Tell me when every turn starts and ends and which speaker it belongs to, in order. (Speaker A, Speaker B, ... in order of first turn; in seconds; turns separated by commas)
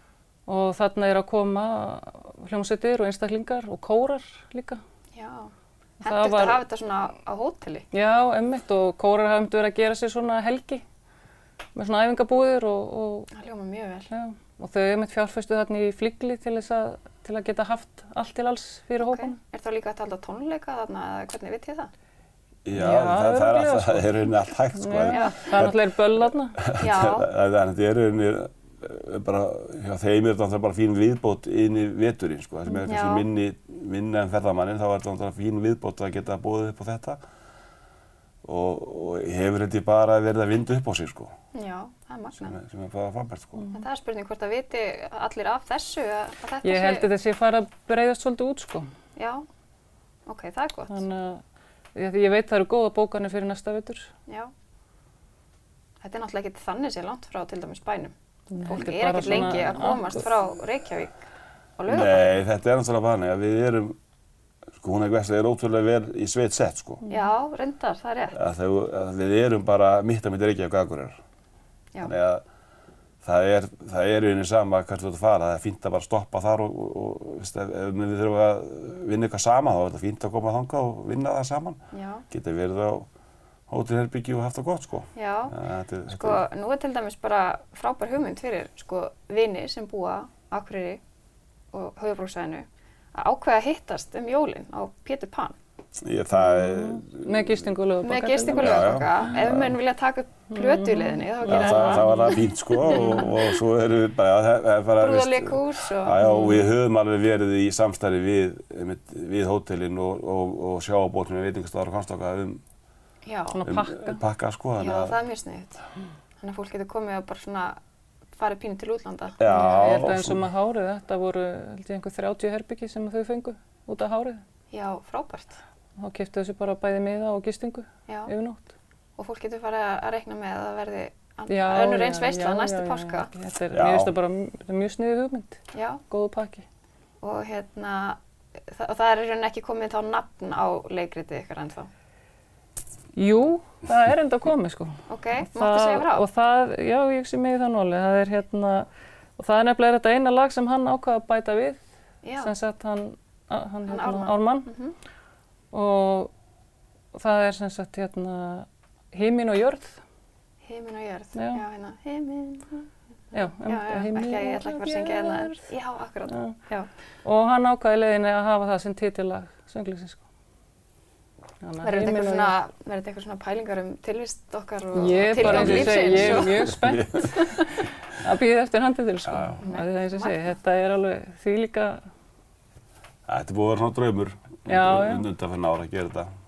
Speaker A: 0.5-4.8, Speaker B: 5.2-7.9, Speaker A: 6.0-6.6, Speaker A: 7.9-10.8, Speaker A: 11.8-13.3, Speaker B: 13.3-14.1, Speaker A: 14.1-19.4, Speaker B: 19.0-21.9, Speaker C: 22.6-37.2, Speaker A: 22.8-26.6, Speaker B: 25.1-25.4, Speaker B: 26.8-27.3, Speaker B: 32.9-33.3, Speaker C: 38.4-41.3, Speaker B: 41.5-42.6, Speaker C: 42.4-43.6, Speaker A: 43.6-43.8, Speaker B: 43.7-47.1, Speaker A: 46.6-48.9, Speaker B: 49.2-49.5, Speaker B: 50.3-51.0, Speaker A: 50.9-51.4, Speaker A: 52.0-54.1, Speaker B: 56.0-61.2, Speaker A: 58.5-60.2, Speaker B: 61.8-62.4, Speaker C: 61.9-64.0, Speaker C: 64.8-67.0, Speaker B: 67.1-68.4, Speaker C: 68.3-71.2, Speaker C: 72.0-72.4, Speaker C: 73.2-83.1, Speaker B: 81.9-82.2, Speaker C: 83.7-86.5, Speaker B: 85.2-85.6, Speaker B: 86.1-91.0, Speaker B: 91.7-95.6, Speaker C: 96.0-97.7, Speaker A: 96.3-99.0, Speaker B: 98.0-102.3, Speaker C: 98.5-99.8, Speaker A: 100.5-102.5, Speaker C: 101.5-112.6, Speaker B: 102.9-103.3, Speaker B: 105.0-106.3, Speaker A: 106.2-106.6, Speaker B: 113.2-113.6, Speaker A: 113.5-114.2, Speaker C: 113.7-115.2, Speaker B: 114.8-115.8, Speaker B: 116.4-117.8, Speaker B: 118.4-120.0, Speaker C: 119.4-120.5, Speaker A: 119.5-124.4, Speaker B: 124.7-125.6, Speaker A: 126.0-128.7, Speaker B: 129.2-133.3, Speaker A: 131.5-136.7, Speaker C: 133.7-134.1, Speaker B: 135.7-136.0, Speaker B: 137.2-141.9, Speaker A: 143.2-148.9, Speaker B: 145.1-146.3, Speaker A: 149.4-151.8, Speaker B: 152.2-152.5, Speaker A: 152.4-154.7, Speaker B: 153.9-154.9, Speaker A: 155.7-156.3, Speaker A: 157.1-160.0, Speaker B: 160.6-166.9, Speaker A: 161.4-161.6, Speaker A: 163.3-165.7, Speaker A: 166.3-166.6, Speaker A: 167.2-170.2, Speaker A: 171.6-172.5, Speaker B: 171.8-176.7, Speaker A: 174.9-182.0, Speaker C: 175.3-177.7, Speaker C: 179.3-179.6, Speaker B: 179.6-180.6, Speaker C: 183.3-186.3, Speaker A: 184.7-185.3